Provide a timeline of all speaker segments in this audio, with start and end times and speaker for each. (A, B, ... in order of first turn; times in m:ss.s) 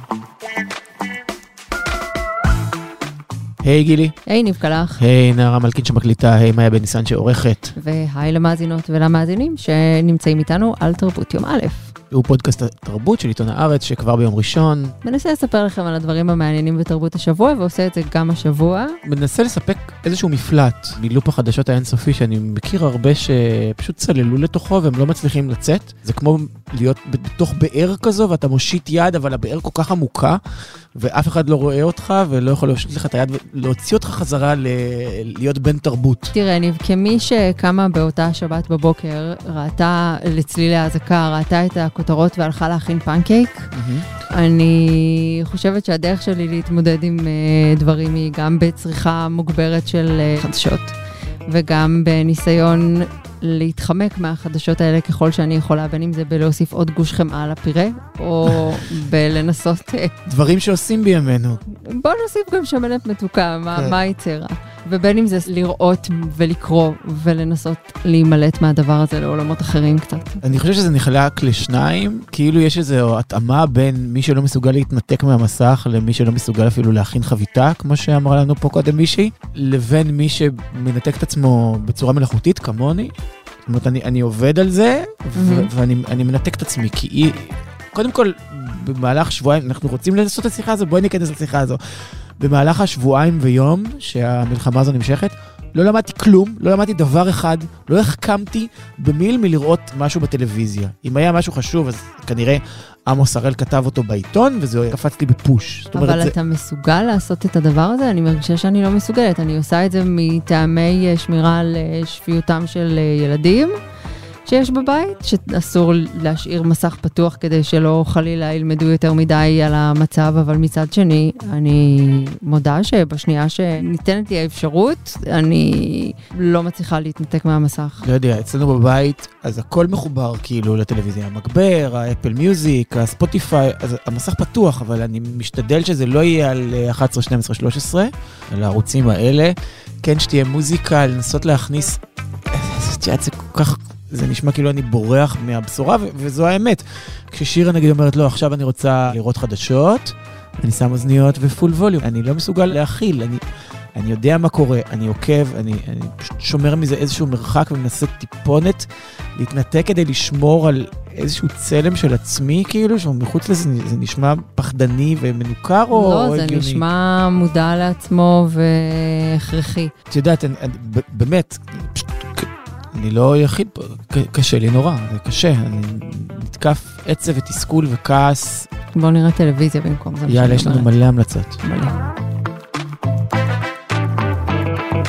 0:03.6-0:04.2 A
0:04.3-0:05.0 B
0:05.0-0:07.7 A
0:07.8-0:11.9 B
0:12.1-0:15.0 A
0:15.0-0:19.0 B
0:19.0-0:30.4 A
0:30.9-0:36.3 A
0:36.3-0:43.6 B
0:43.7-0:44.0 A
0:44.3-0:50.9 B
0:51.5-1:00.1 B
1:00.2-1:01.6 A
1:01.7-1:10.4 B
1:10.4-1:23.1 A
1:23.6-1:46.3 A
1:25.4-1:25.7 B
1:45.9-1:53.7 B
1:54.4-2:08.0 B
2:08.0-2:33.4 A
2:33.9-2:46.8 A
2:45.9-2:49.9 B
2:50.1-2:58.7 A
2:58.9-3:00.9 B
3:00.3-3:01.6 A
3:01.6-3:01.9 B